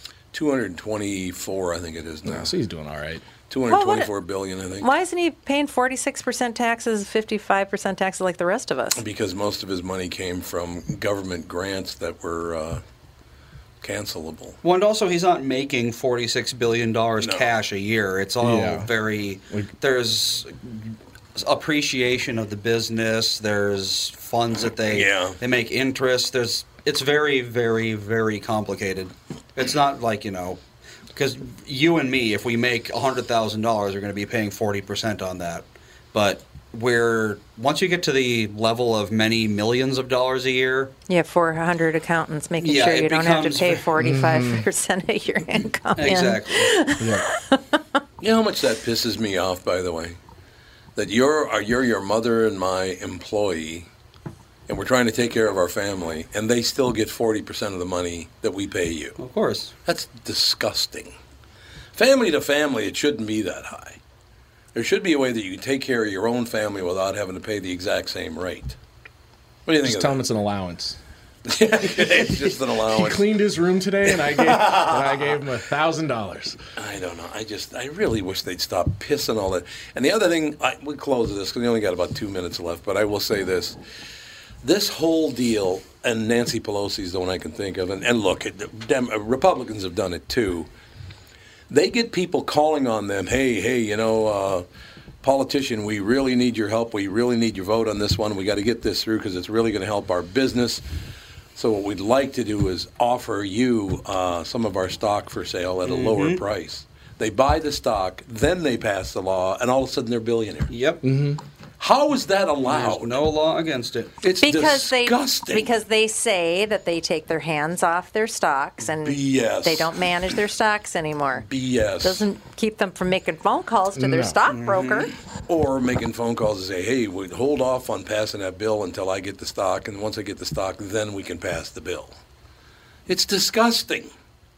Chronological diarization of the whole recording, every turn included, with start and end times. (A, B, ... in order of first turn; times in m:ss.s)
0:00.3-0:02.5 A
0:02.2-0:03.2 B
0:03.5-0:04.9 A
0:03.7-0:04.1 C
0:04.8-0:09.0 C
0:08.9-0:12.8 A
0:13.8-0:14.6 A
0:14.6-0:30.6 D
0:17.2-0:17.5 A
0:18.4-0:18.9 B
0:24.9-0:25.4 A
0:31.1-0:40.9 D
0:41.1-0:47.8 C
0:42.6-0:43.8 D
0:44.0-0:44.7 B
0:46.0-0:46.7 D
0:47.0-0:47.3 B
0:48.2-0:50.2 A
0:51.0-0:53.9 A
0:54.7-0:59.2 A
0:59.2-0:59.7 D
0:59.8-1:01.1 A
1:01.9-1:04.0 A
1:04.7-1:08.8 A
1:09.6-1:10.2 A
1:09.8-1:11.0 B
1:11.4-1:13.2 A
1:11.8-1:16.6 B
1:14.3-1:15.1 A
1:16.8-1:23.8 A
1:24.6-1:30.7 A
1:31.7-1:34.6 A
1:35.2-1:40.8 A
1:41.5-1:50.7 A
1:45.8-1:46.4 D
1:50.7-1:51.0 D
1:51.0-1:51.4 B
1:51.8-1:53.2 A
1:52.6-1:54.2 D
1:54.2-1:55.7 A
1:54.4-2:01.4 C
1:59.0-2:00.0 A
2:01.4-2:02.2 A
2:02.0-2:05.1 C
2:03.9-2:04.4 B
2:04.5-2:05.1 D
2:05.5-2:12.2 A
2:13.1-2:14.1 A